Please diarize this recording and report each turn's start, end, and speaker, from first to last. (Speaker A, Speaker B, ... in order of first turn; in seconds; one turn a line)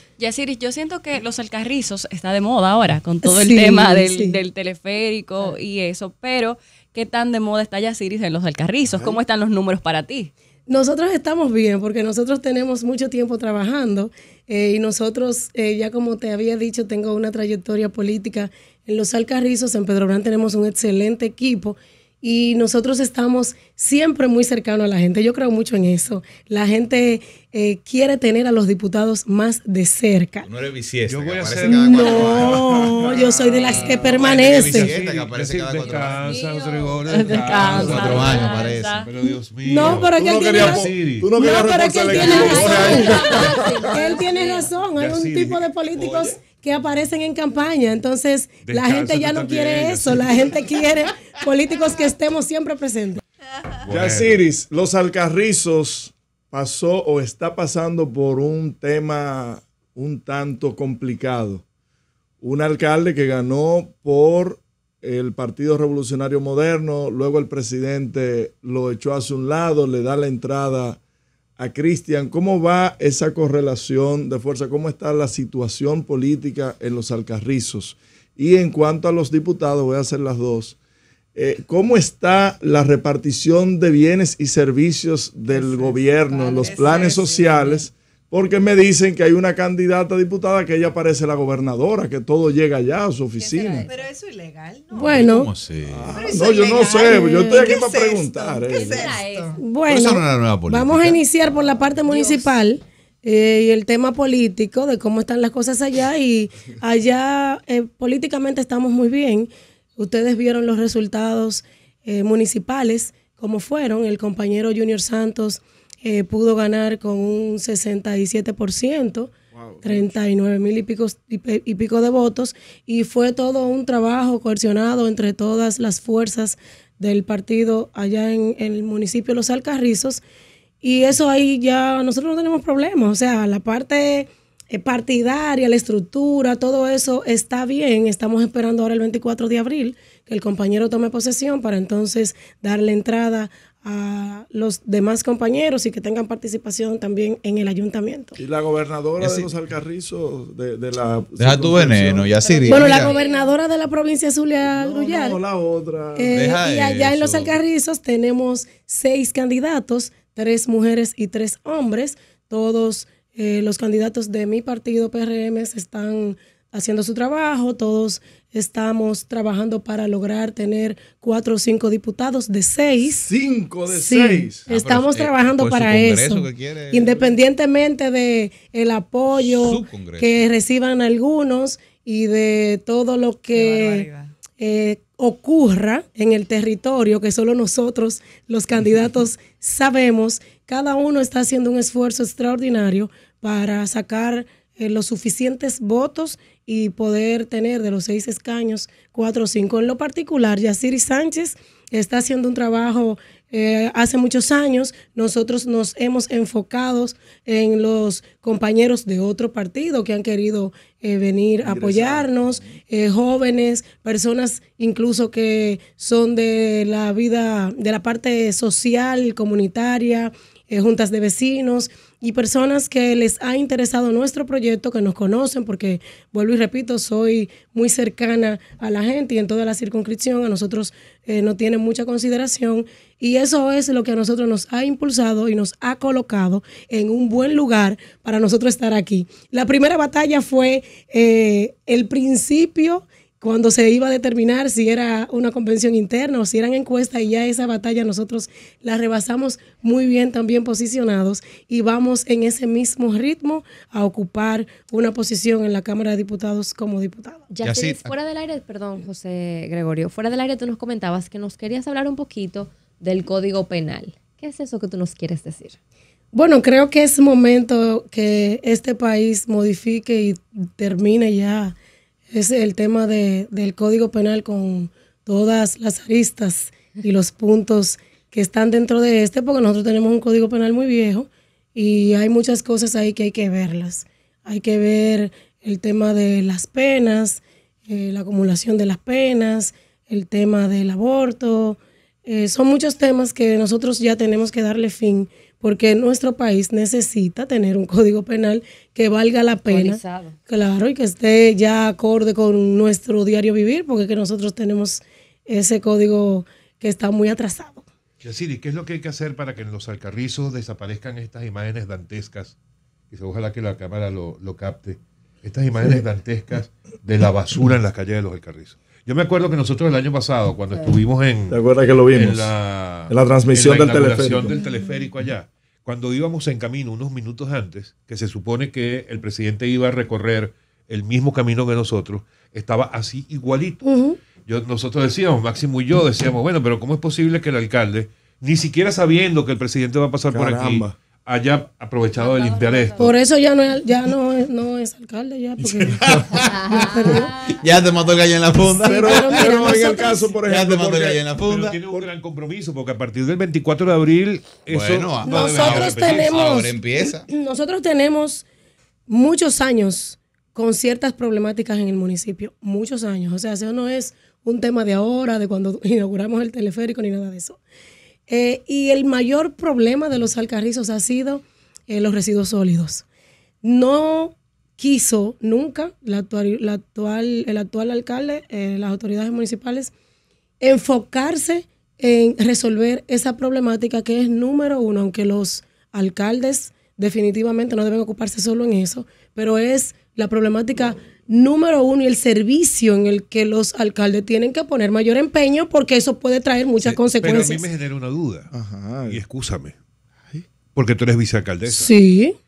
Speaker A: 0.2-10.3
Speaker B: 3.2-4.4
Speaker C: 8.8-9.2
Speaker B: 10.7-30.5
Speaker D: 30.4-32.9
Speaker E: 31.0-32.6
Speaker B: 31.6-34.9
Speaker C: 32.5-33.9
Speaker D: 33.7-36.3
Speaker E: 34.4-38.5
Speaker A: 36.2-39.1
Speaker D: 37.5-39.0
Speaker E: 39.0-41.3
Speaker B: 39.6-53.2
Speaker C: 39.9-43.9
Speaker F: 41.9-44.7
Speaker A: 42.4-43.1
Speaker E: 44.9-46.3
Speaker E: 48.6-50.5
Speaker E: 53.8-54.4
Speaker C: 53.9-61.6
Speaker C: 62.4-71.0
Speaker C: 71.6-80.8
Speaker C: 81.3-93.9
Speaker F: 85.5-86.0
Speaker G: 86.4-87.8
Speaker F: 93.4-93.9
Speaker G: 93.8-95.2
Speaker B: 94.9-95.5
Speaker D: 94.9-96.1
Speaker C: 95.9-99.1
Speaker G: 96.1-99.6
Speaker B: 97.1-97.7
Speaker F: 98.7-99.6
Speaker B: 99.6-119.3
Speaker D: 99.8-101.2
Speaker G: 102.1-102.4
Speaker C: 119.5-120.0
Speaker B: 119.8-130.2
Speaker B: 130.8-148.4
Speaker C: 148.4-152.4
Speaker D: 149.2-149.5
Speaker D: 151.4-153.1
Speaker F: 152.4-153.5
Speaker B: 152.7-155.4
Speaker C: 154.7-156.4
Speaker B: 156.1-173.3
Speaker D: 156.3-157.6
Speaker C: 173.0-174.7
Speaker B: 173.9-184.1
Speaker D: 174.7-177.2
Speaker D: 179.3-180.3
Speaker A: 183.5-184.3
Speaker B: 184.6-257.5
Speaker C: 211.6-212.7
Speaker F: 257.5-265.8
Speaker D: 257.6-258.1
Speaker B: 266.3-271.7
Speaker B: 272.3-307.9
Speaker F: 299.6-300.3
Speaker E: 308.2-312.5
Speaker E: 313.1-333.8
Speaker C: 321.5-322.5
Speaker C: 323.1-324.6
Speaker B: 333.8-334.2
Speaker E: 334.4-343.1
Speaker C: 340.3-341.0
Speaker F: 342.1-343.0
Speaker B: 343.0-347.4
Speaker D: 346.1-346.7
Speaker F: 346.5-347.2
Speaker D: 347.4-349.6
Speaker C: 348.8-351.2
Speaker B: 348.8-350.3
Speaker D: 350.5-351.8
Speaker E: 351.4-356.5
Speaker D: 354.7-357.3
Speaker B: 355.2-358.4
Speaker B: 359.1-367.6
Speaker B: 368.3-373.0
Speaker B: 373.6-379.9
Speaker B: 380.6-397.7
Speaker E: 396.8-398.5
Speaker C: 398.5-399.2
Speaker E: 399.1-399.8
Speaker E: 400.7-401.9
Speaker B: 401.7-402.4